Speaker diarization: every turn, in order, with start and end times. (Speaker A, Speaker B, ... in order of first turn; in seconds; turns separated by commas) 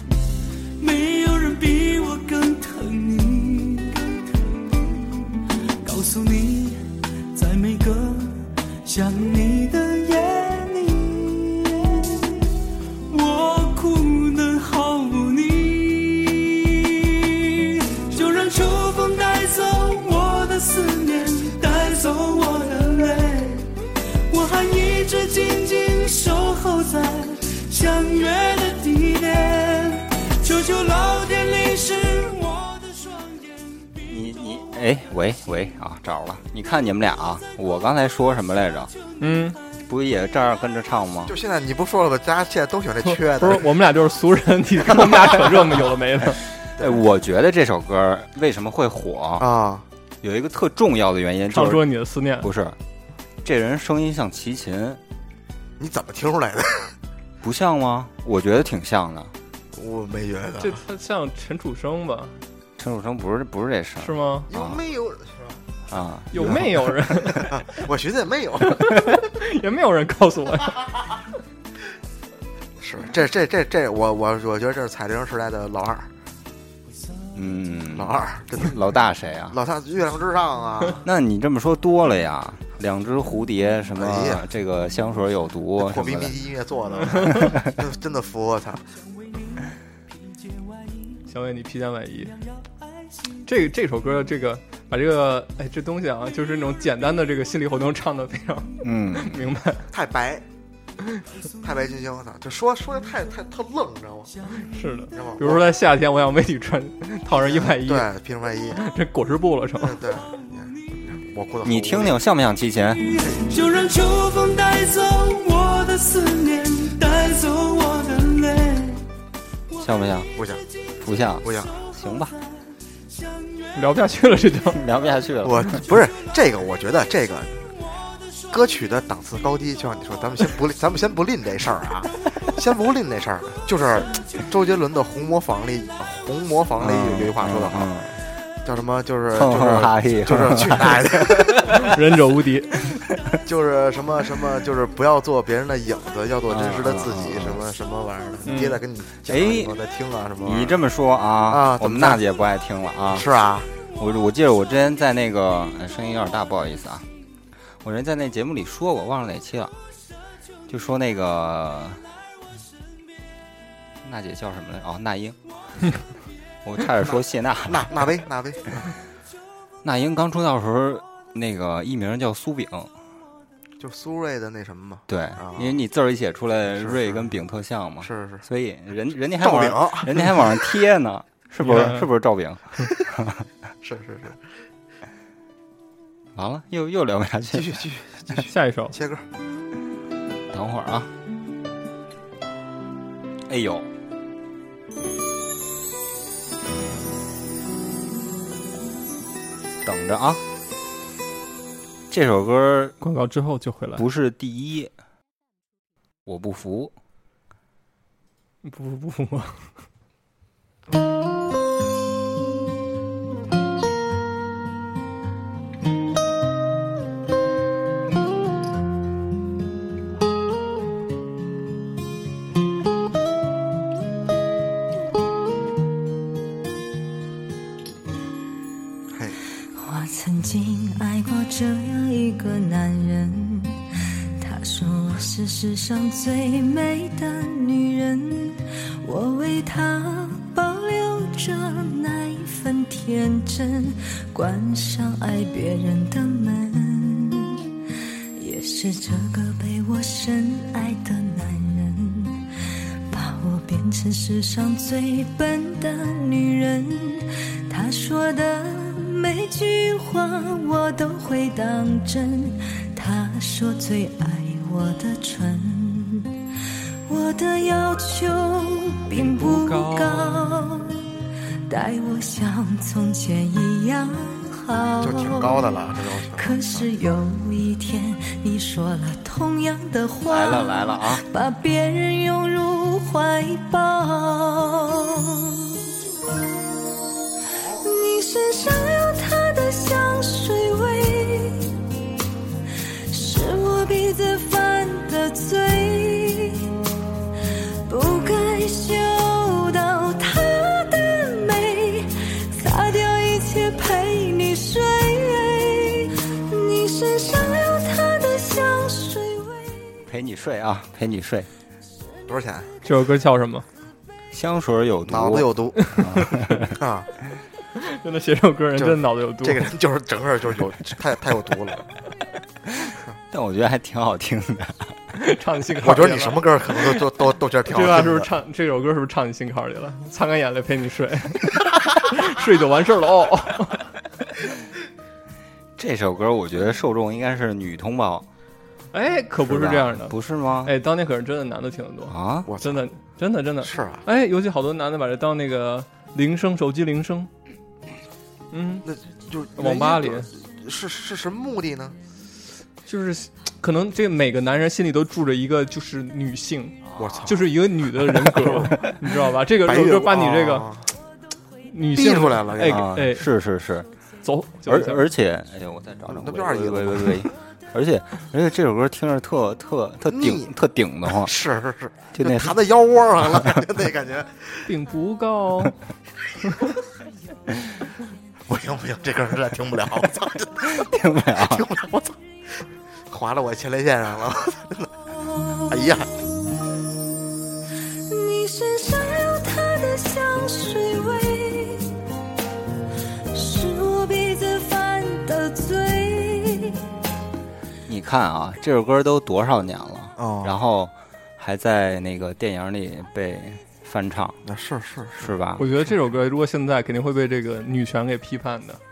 Speaker A: 0.8-12.5, Speaker A: 13.1-23.7, Speaker A: 24.3-33.4, Speaker B: 34.1-38.9, Speaker C: 39.2-39.6, Speaker B: 39.9-41.4, Speaker D: 41.3-43.7, Speaker C: 43.0-46.4, Speaker B: 46.8-49.5, Speaker D: 49.4-49.9, Speaker B: 50.2-51.9, Speaker C: 51.5-52.5, Speaker B: 52.4-52.8, Speaker B: 53.4-55.0, Speaker D: 55.8-56.9, Speaker B: 57.4-59.3, Speaker D: 59.7-60.8, Speaker C: 60.6-62.3, Speaker B: 62.8-64.8, Speaker C: 64.0-64.5, Speaker D: 64.5-65.6, Speaker B: 65.9-66.7, Speaker C: 66.3-67.5, Speaker D: 66.4-66.7, Speaker D: 67.2-69.1, Speaker C: 68.7-70.8, Speaker D: 72.8-76.1, Speaker B: 77.3-79.6, Speaker D: 78.0-78.8, Speaker D: 79.5-81.0, Speaker B: 81.0-86.5, Speaker D: 84.0-84.4, Speaker D: 85.8-88.8, Speaker A: 89.3-91.2, Speaker C: 91.3-92.4, Speaker C: 93.5-99.9, Speaker B: 98.8-99.3, Speaker D: 99.9-100.4, Speaker D: 101.6-104.3, Speaker C: 104.6-108.1, Speaker D: 105.2-105.7, Speaker D: 107.3-108.8, Speaker C: 108.8-110.0, Speaker D: 109.8-112.2, Speaker B: 111.7-113.0, Speaker A: 113.2-119.1, Speaker B: 119.8-120.3, Speaker D: 120.4-120.6, Speaker B: 121.0-122.3, Speaker D: 121.4-121.8, Speaker C: 123.8-124.8, Speaker B: 124.7-125.9, Speaker D: 125.4-127.6, Speaker D: 128.5-137.9, Speaker B: 136.8-138.2, Speaker D: 138.6-141.9, Speaker B: 139.3-141.9, Speaker C: 141.8-142.8, Speaker D: 143.4-150.8, Speaker B: 146.5-147.6, Speaker C: 148.4-148.8, Speaker B: 149.3-149.7, Speaker B: 150.4-153.3, Speaker D: 151.5-152.2, Speaker D: 153.1-153.7, Speaker B: 154.0-157.1, Speaker B: 157.8-159.8, Speaker B: 160.7-162.0, Speaker B: 164.0-165.4, Speaker B: 166.7-167.9, Speaker D: 167.0-168.9, Speaker B: 169.8-172.9, Speaker D: 173.8-175.8, Speaker B: 175.1-183.4, Speaker D: 176.7-177.3, Speaker D: 178.0-178.4, Speaker D: 179.4-180.6, Speaker C: 181.6-182.1, Speaker D: 183.8-184.4, Speaker B: 186.4-187.8, Speaker D: 187.5-189.2, Speaker C: 188.4-188.9, Speaker B: 190.5-191.1, Speaker B: 193.5-193.9, Speaker B: 199.8-200.4, Speaker B: 202.1-203.0, Speaker C: 203.0-204.0, Speaker B: 204.0-204.9, Speaker B: 206.3-206.9, Speaker C: 208.6-209.7, Speaker D: 229.1-229.4, Speaker E: 229.7-233.8, Speaker E: 234.4-247.8, Speaker E: 248.4-252.5, Speaker E: 253.1-266.3, Speaker E: 267.1-271.0, Speaker C: 269.1-270.5, Speaker E: 271.7-275.7, Speaker D: 275.0-276.9, Speaker E: 276.4-285.8, Speaker B: 280.3-281.2, Speaker E: 287.6-291.8, Speaker E: 293.1-296.8, Speaker E: 297.9-310.0, Speaker B: 310.1-311.5, Speaker D: 312.3-312.7, Speaker C: 312.8-313.7, Speaker B: 314.3-316.8, Speaker D: 315.1-317.1, Speaker C: 317.8-319.7, Speaker D: 318.8-321.9, Speaker B: 323.3-325.0, Speaker C: 325.1-326.4, Speaker D: 325.8-328.3, Speaker C: 327.7-333.9, Speaker B: 335.8-338.3, Speaker C: 338.9-340.1, Speaker B: 339.4-340.7, Speaker C: 340.6-347.3, Speaker B: 342.1-342.5, Speaker D: 342.5-342.9, Speaker D: 343.6-344.0, Speaker C: 348.5-348.9, Speaker D: 348.9-352.0, Speaker C: 349.6-350.3, Speaker C: 352.9-360.7, Speaker B: 356.9-357.3, Speaker D: 357.0-357.5, Speaker D: 359.6-360.9, Speaker C: 361.7-363.2, Speaker D: 361.9-362.9, Speaker B: 362.6-363.9, Speaker C: 364.2-365.0, Speaker B: 364.7-371.3, Speaker D: 366.1-367.3, Speaker D: 370.1-370.5, Speaker D: 371.1-374.7, Speaker B: 372.1-372.6, Speaker C: 374.7-375.8, Speaker D: 378.5-384.9, Speaker B: 380.7-381.6, Speaker D: 385.7-386.1, Speaker E: 388.1-392.0, Speaker E: 393.3-396.8, Speaker B: 397.9-404.4, Speaker D: 400.2-400.6, Speaker D: 404.5-405.3, Speaker B: 405.2-405.6, Speaker C: 405.6-408.8